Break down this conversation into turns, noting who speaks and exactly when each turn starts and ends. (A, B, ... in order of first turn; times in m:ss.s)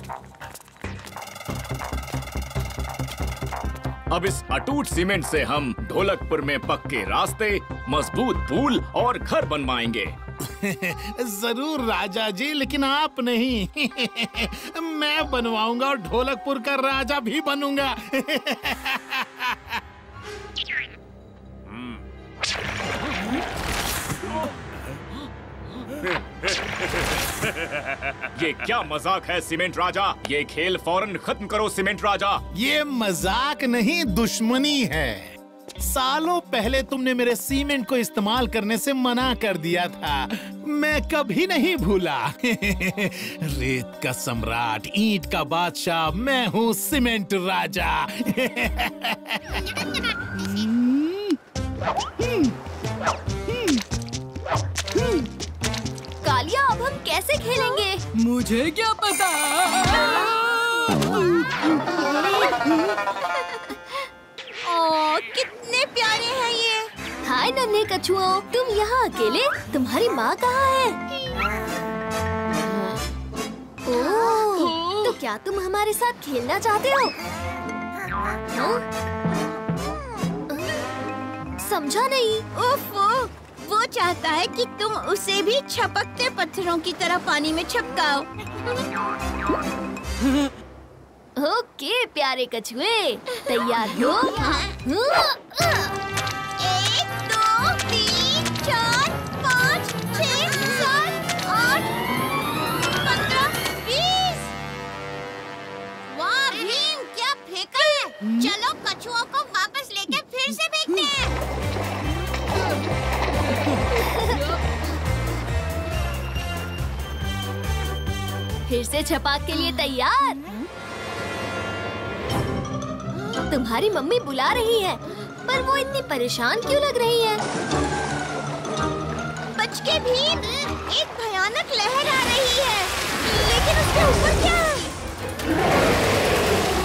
0:04.1-0:10.2 A
0:10.4-0:19.8 B
0:28.4-0:32.4 A
0:32.5-0:49.6 B
0:50.4-0:51.4 C
0:52.2-0:52.5 C
0:53.5-0:53.8 C
0:56.2-0:58.0 D
0:58.2-1:01.5 C
1:04.6-1:06.9 E
1:07.2-1:11.0 D
1:13.8-1:17.1 D
1:13.9-1:15.1 E
1:18.5-1:18.8 D
1:21.6-1:22.5 D
1:22.6-1:28.3 E
1:31.4-1:36.0 D
1:33.8-1:34.7 E
1:36.6-1:41.9 E
1:42.8-1:44.5 E
1:46.1-1:51.4 E
1:58.7-2:00.5 D
2:03.5-2:07.4 D
2:09.6-2:15.0 E